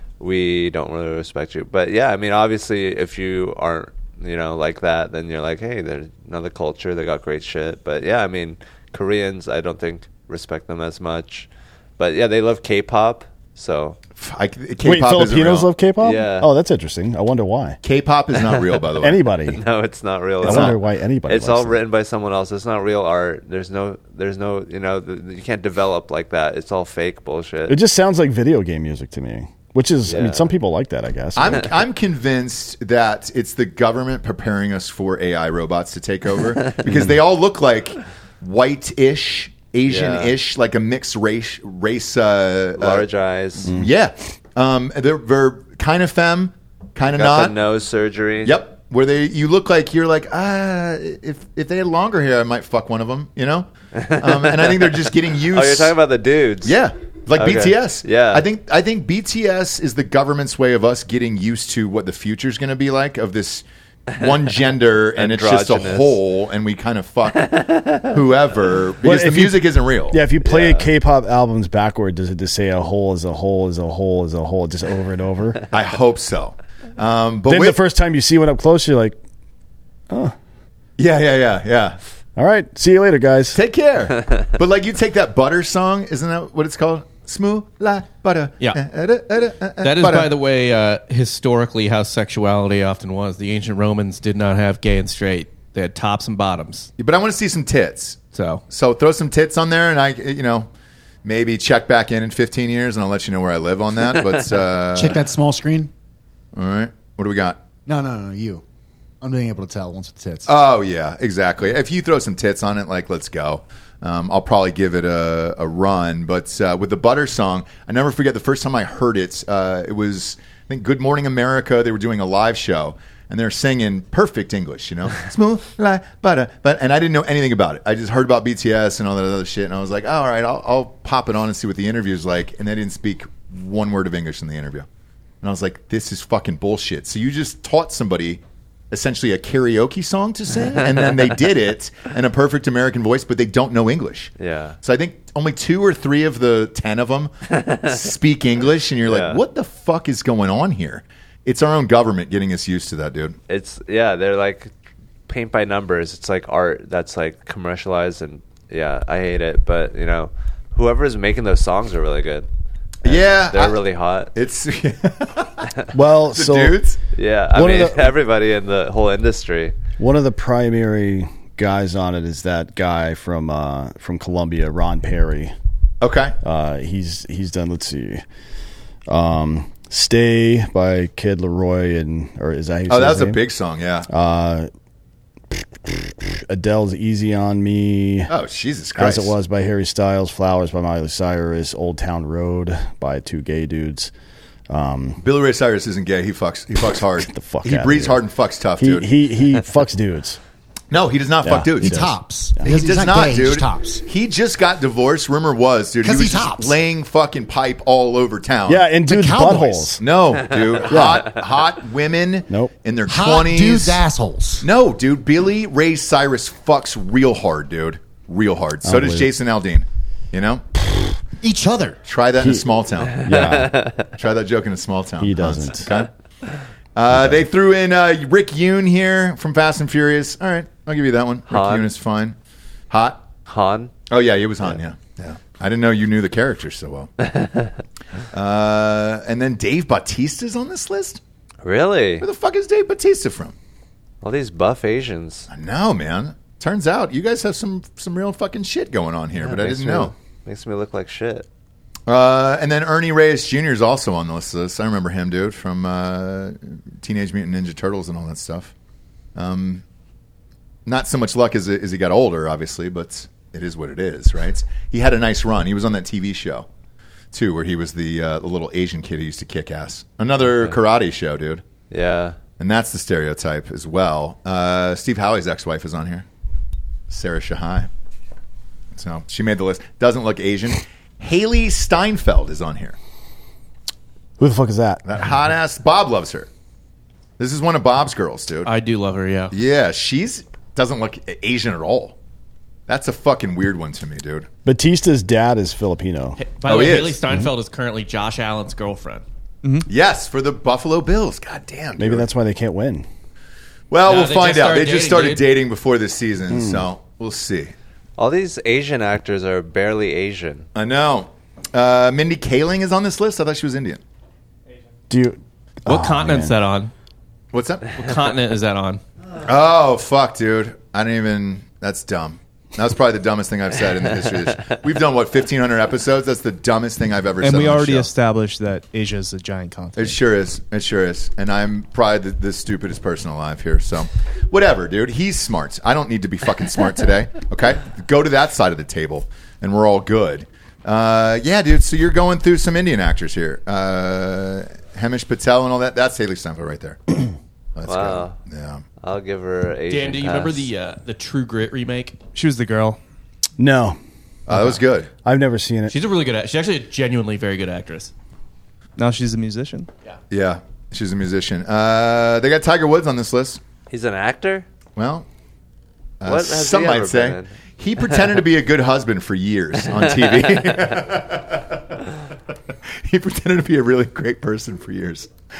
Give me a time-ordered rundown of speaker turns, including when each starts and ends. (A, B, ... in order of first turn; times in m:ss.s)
0:00.2-0:11.5 A
0:12.0-0:14.0 A
0:14.2-0:15.7 B
0:14.8-0:17.8 C
0:16.0-0:16.5 A
0:17.8-0:19.2 B
0:19.0-0:19.6 C
0:19.5-0:27.8 A
0:20.4-0:21.8 C
0:20.4-0:20.7 B
0:27.7-0:31.7 C
0:30.0-0:30.5 A
0:31.3-0:43.0 B
0:39.9-0:40.3 A
0:42.8-0:43.7 A
0:43.6-0:43.9 C
0:43.7-0:47.6 B
0:47.1-0:48.6 A
0:48.4-0:53.7 B
0:53.9-0:56.7 A
0:54.2-0:55.9 B
0:56.6-1:07.5 B
0:57.4-0:58.4 A
1:05.2-1:06.2 A
1:07.5-1:08.1 A
1:08.0-1:10.2 B
1:09.0-1:15.6 C
1:10.4-1:10.9 A
1:15.7-1:17.8 B
1:17.4-1:19.2 C
1:20.1-1:20.3 C
1:21.0-1:22.0 B
1:22.4-1:23.6 C
1:23.5-1:30.3 B
1:29.8-1:36.9 D
1:37.0-1:40.7 B
1:38.3-1:38.6 D
1:41.2-1:45.2 B
1:44.9-1:45.9 E
1:46.5-1:47.6 B
1:47.8-1:48.6 E
1:49.2-1:50.5 E
1:50.5-2:14.8 B
2:15.4-2:27.3 B
2:24.4-2:24.8 A
2:27.5-2:27.9 A
2:27.9-2:33.4 B
2:29.0-2:29.4 A
2:33.5-2:34.7 A
2:35.3-2:42.5 A
2:43.0-2:43.8 B
2:43.0-2:44.3 A
2:44.3-2:45.8 B
2:45.9-2:46.8 C
2:46.3-2:47.0 B
2:47.1-2:49.7 A
2:47.5-2:48.2 C
2:50.0-2:55.5 C
2:56.0-2:56.3 B
2:56.4-2:58.2 C
2:59.1-3:03.4 C
3:02.9-3:04.1 B
3:04.1-3:04.7 C
3:05.8-3:08.3 C
3:08.3-3:09.3 B
3:09.0-3:14.1 C
3:14.7-3:15.2 C
3:15.2-3:19.0 B
3:17.3-3:18.2 C
3:18.8-3:20.4 C
3:20.9-3:22.0 B
3:21.4-3:22.6 C
3:21.8-3:24.0 E
3:22.6-3:28.9 B
3:26.0-3:26.8 E
3:28.7-3:30.0 C
3:29.0-3:29.9 E
3:30.0-3:34.0 B
3:30.8-3:31.3 C
3:33.0-3:34.6 E
3:34.6-3:40.6 B
3:38.8-3:39.3 C
3:41.4-3:42.0 E
3:42.0-3:43.3 B
3:42.4-3:43.7 C
3:43.3-3:44.1 A
3:44.2-3:46.1 B
3:45.2-3:45.9 C
3:47.0-3:52.3 B
3:47.1-3:47.4 C
3:51.5-3:51.9 A
3:52.9-3:53.2 B
3:53.4-3:53.9 A
3:54.1-3:57.1 B
3:58.3-4:01.2 B
4:01.6-4:02.2 A
4:02.2-4:03.5 B
4:04.2-4:05.5 A
4:05.5-4:10.1 B
4:09.4-4:11.4 A
4:12.1-4:18.7 B
4:19.4-4:19.8 B
4:20.8-4:26.7 B
4:27.3-4:31.6 B
4:30.5-4:30.8 A
4:31.9-4:32.4 A
4:32.6-4:36.2 B
4:37.1-4:37.9 B
4:38.9-4:43.0 B
4:44.4-4:45.0 C
4:45.0-4:46.5 B
4:47.4-4:48.7 B
4:48.6-4:49.5 D
4:49.5-4:52.2 B
4:52.9-4:54.5 B
4:54.6-4:56.4 C
4:56.4-4:59.2 D
4:56.6-4:57.2 B
4:57.3-4:57.5 C
4:59.9-5:02.2 B
5:02.0-5:03.0 C
5:03.9-5:07.7 B
5:04.0-5:05.5 D
5:06.5-5:06.8 C
5:08.2-5:10.7 A
5:10.7-5:14.0 B
5:15.1-5:16.5 C
5:15.8-5:16.9 D
5:17.5-5:18.0 B
5:18.0-5:19.0 D
5:19.4-5:28.1 B
5:27.4-5:30.2 F
5:30.0-5:48.8 B
5:47.9-5:48.4 A
5:49.0-5:50.7 A
5:49.9-5:52.2 D
5:52.3-5:53.0 F
5:53.6-5:54.0 C
5:54.5-5:55.1 B
5:54.5-5:55.9 C
5:55.9-5:58.1 D
5:59.0-5:59.9 F
6:00.3-6:03.6 B
6:03.9-6:04.6 A
6:05.0-6:05.3 B
6:06.2-6:12.1 B
6:06.2-6:07.5 A
6:13.0-6:15.3 B